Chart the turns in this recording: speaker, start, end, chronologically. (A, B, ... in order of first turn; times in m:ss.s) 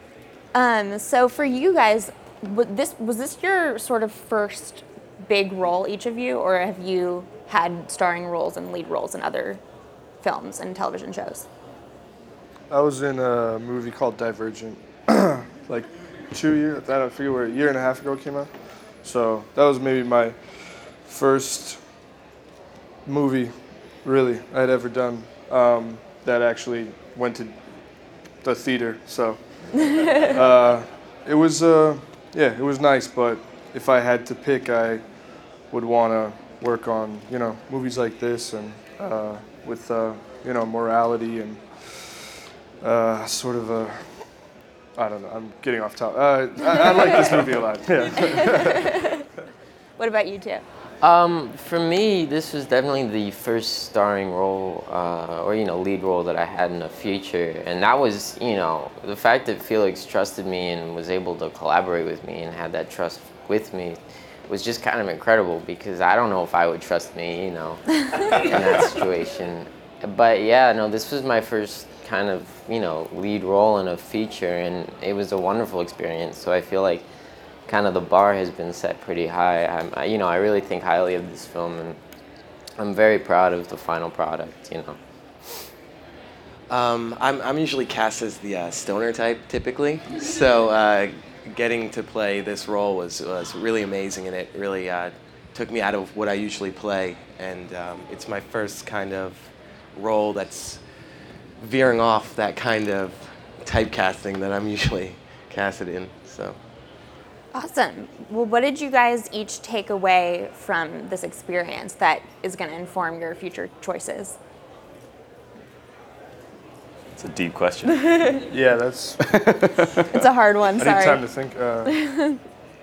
0:00.5-0:09.6 A
0:10.2-0:11.4 A
0:12.7-0:18.5 B
0:19.0-0:20.4 B
0:21.0-0:21.8 B
0:23.0-0:27.6 B
0:28.4-0:35.0 B
0:35.7-0:44.2 B
0:45.0-0:48.9 B
0:48.4-0:49.2 A
0:50.0-0:50.6 A
0:51.0-1:17.1 C
1:17.7-1:22.0 C
1:22.8-1:25.6 C
1:26.7-1:40.8 D
1:41.6-1:46.6 D
1:47.5-1:54.4 A
1:57.2-1:58.3 E
1:58.5-1:59.3 B
1:59.3-2:00.0 E
2:00.1-2:01.2 A
2:00.8-2:01.9 B
2:01.8-2:02.4 A